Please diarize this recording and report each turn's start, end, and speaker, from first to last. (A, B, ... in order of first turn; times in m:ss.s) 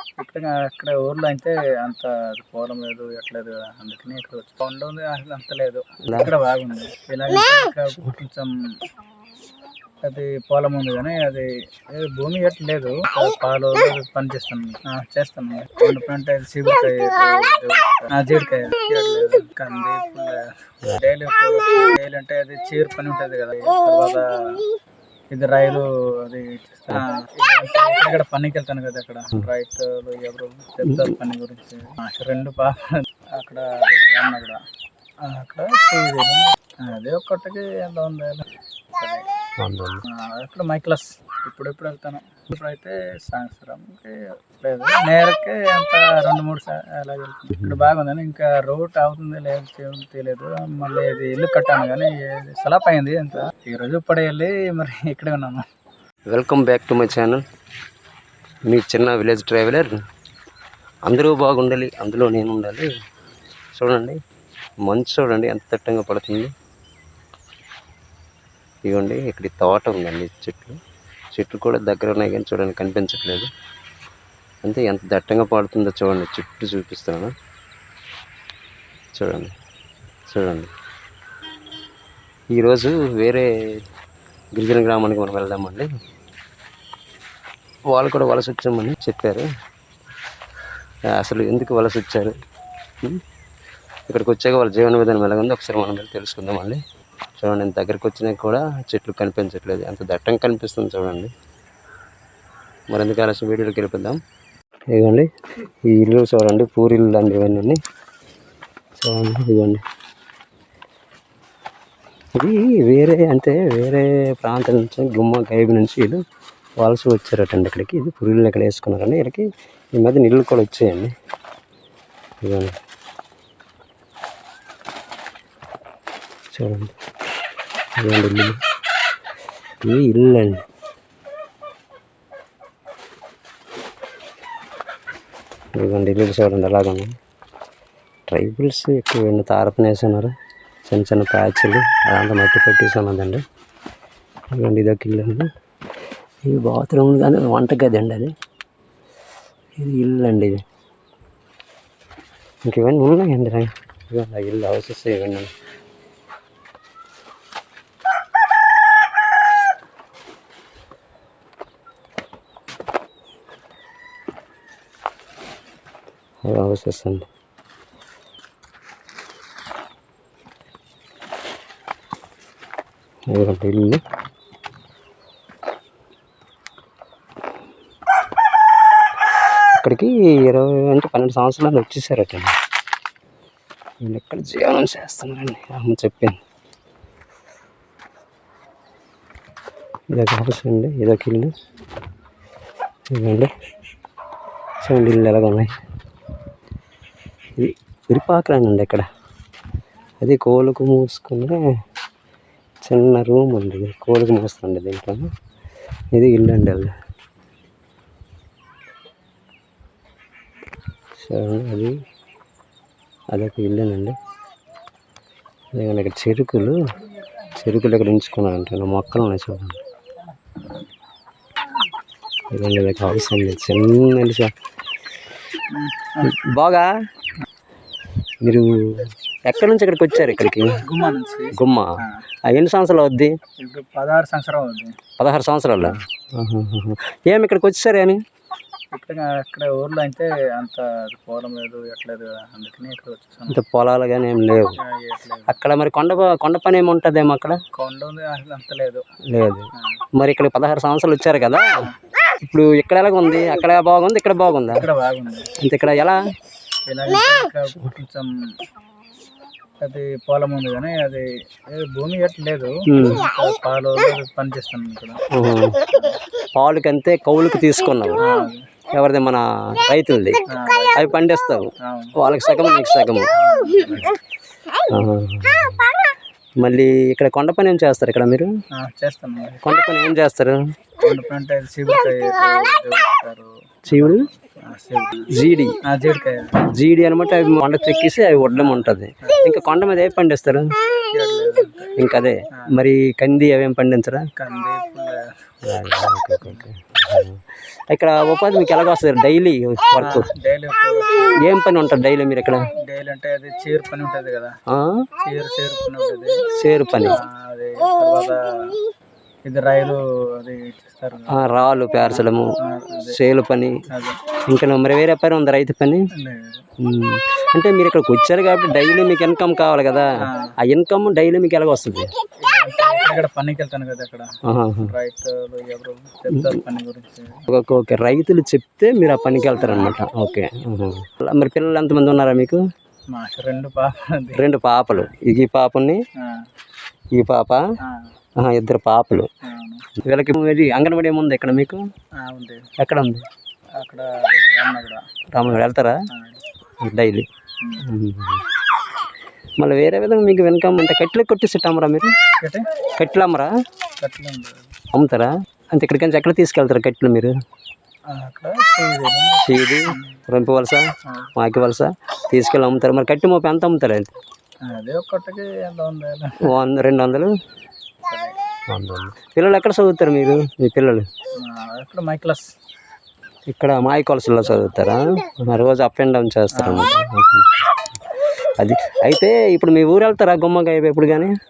0:00.2-0:08.5 A
0:10.1-0:20.4 A
0:21.0-0:24.6 A
0:25.3-0:32.8 A
0:33.3-0:34.6 A
0:35.2-0:39.2 A
0:39.6-0:40.0 B
0:40.0-0:55.6 A
0:47.5-0:47.8 B
0:56.3-0:57.4 B
0:58.7-1:00.0 B
1:01.0-1:02.9 B
1:03.8-1:04.2 B
1:04.8-1:06.5 B
1:08.8-1:10.8 B
1:11.4-1:13.5 B
1:14.6-1:17.3 B
1:19.2-1:19.5 B
1:20.3-1:20.7 B
1:22.5-1:23.5 B
1:24.6-1:25.9 B
1:27.9-1:29.5 B
1:31.1-1:32.3 B
1:34.1-1:36.8 B
1:37.4-1:41.3 B
1:42.9-1:44.2 B
1:44.9-1:45.3 B
1:45.8-1:47.8 B
1:49.0-1:49.8 B
1:52.4-1:56.2 B
1:56.8-2:01.1 B
2:02.4-2:02.7 B
2:06.5-2:06.9 B
2:08.0-2:08.6 B
2:09.8-2:10.6 B
2:15.8-2:17.1 B
2:18.3-2:20.3 B
2:20.9-2:23.4 B
2:24.5-2:25.5 B
2:26.5-2:28.3 B
2:29.8-2:30.6 B
2:32.6-2:35.5 B
2:46.4-2:47.2 B
2:53.3-2:54.0 B
2:59.8-3:02.5 B
3:04.0-3:06.4 B
3:10.1-3:11.5 B
3:13.1-3:13.5 B
3:14.8-3:15.7 B
3:17.6-3:19.1 B
3:20.2-3:21.6 B
3:22.8-3:25.3 B
3:26.1-3:26.9 B
3:31.2-3:31.9 B
3:33.3-3:34.2 B
3:35.7-3:36.8 B
3:37.6-3:39.8 B
3:42.5-3:44.5 B
3:45.7-3:46.3 A
3:46.2-3:46.9 B
3:48.4-3:50.8 B
3:50.8-3:52.2 A
3:51.5-3:51.9 B
3:52.5-3:53.4 B
3:53.6-3:55.0 A
3:55.2-3:58.2 B
3:58.9-4:03.6 A
4:03.5-4:04.8 B
4:04.8-4:05.5 A
4:05.5-4:07.6 B
4:07.8-4:09.0 A
4:09.3-4:11.7 B
4:09.8-4:10.0 A
4:12.4-4:14.9 B
4:14.7-4:15.5 A
4:15.6-4:16.2 B
4:16.9-4:18.3 A
4:19.8-4:25.2 A
4:22.9-4:23.3 B
4:25.3-4:25.8 B
4:25.9-4:26.2 A
4:26.6-4:28.2 B
4:28.2-4:28.6 A
4:28.9-4:33.3 B
4:30.5-4:31.1 A
4:31.8-4:32.1 A
4:33.3-4:34.2 A
4:34.9-4:35.9 B
4:36.6-4:38.5 B
4:38.7-4:39.6 A
4:39.6-4:40.6 B
4:41.0-4:45.3 A
4:43.9-4:44.2 B
4:45.3-4:45.7 B
4:45.9-4:46.6 A
4:46.7-4:50.7 B
4:48.5-4:49.4 A
4:51.1-4:51.9 A
4:52.0-4:54.3 B
4:54.4-4:55.2 A
4:55.6-5:00.3 B
5:00.0-5:01.4 A
5:01.4-5:02.7 B
5:02.9-5:04.5 A
5:04.7-5:05.0 B
5:05.2-5:06.4 A
5:06.5-5:07.2 B
5:07.1-5:08.8 A
5:09.4-5:11.4 A
5:11.3-5:12.5 B
5:12.0-5:13.2 A
5:13.1-5:13.7 B
5:13.9-5:14.2 A
5:14.5-5:16.0 B
5:16.2-5:16.7 A
5:16.8-5:20.1 B
5:20.2-5:20.5 A
5:20.6-5:22.1 B
5:22.4-5:24.3 A
5:24.5-5:24.9 B
5:24.8-5:27.4 A
5:27.5-5:32.6 B
5:29.6-5:30.0 A
5:33.1-5:34.4 A
5:34.4-5:36.0 B
5:36.2-5:36.5 A
5:37.1-5:37.6 B
5:37.8-5:38.1 A
5:38.4-5:39.3 B
5:39.4-5:39.9 A
5:40.0-5:41.8 B
5:42.2-5:42.7 A
5:42.8-5:43.2 B
5:43.8-5:45.0 A
5:45.3-5:45.9 B
5:46.1-5:46.4 A
5:46.8-5:47.3 B
5:47.8-5:48.4 B
5:49.6-5:52.1 B
5:53.0-5:53.5 B
5:54.0-5:54.7 A
5:54.9-5:57.4 B
5:58.1-6:00.2 A
5:59.4-6:00.8 B
6:01.4-6:04.2 B
6:04.7-6:06.5 A
6:06.4-6:07.3 B
6:08.0-6:08.4 A
6:08.7-6:11.1 B
6:11.4-6:12.4 A
6:13.5-6:17.7 B
6:16.5-6:17.0 A
6:18.6-6:21.4 B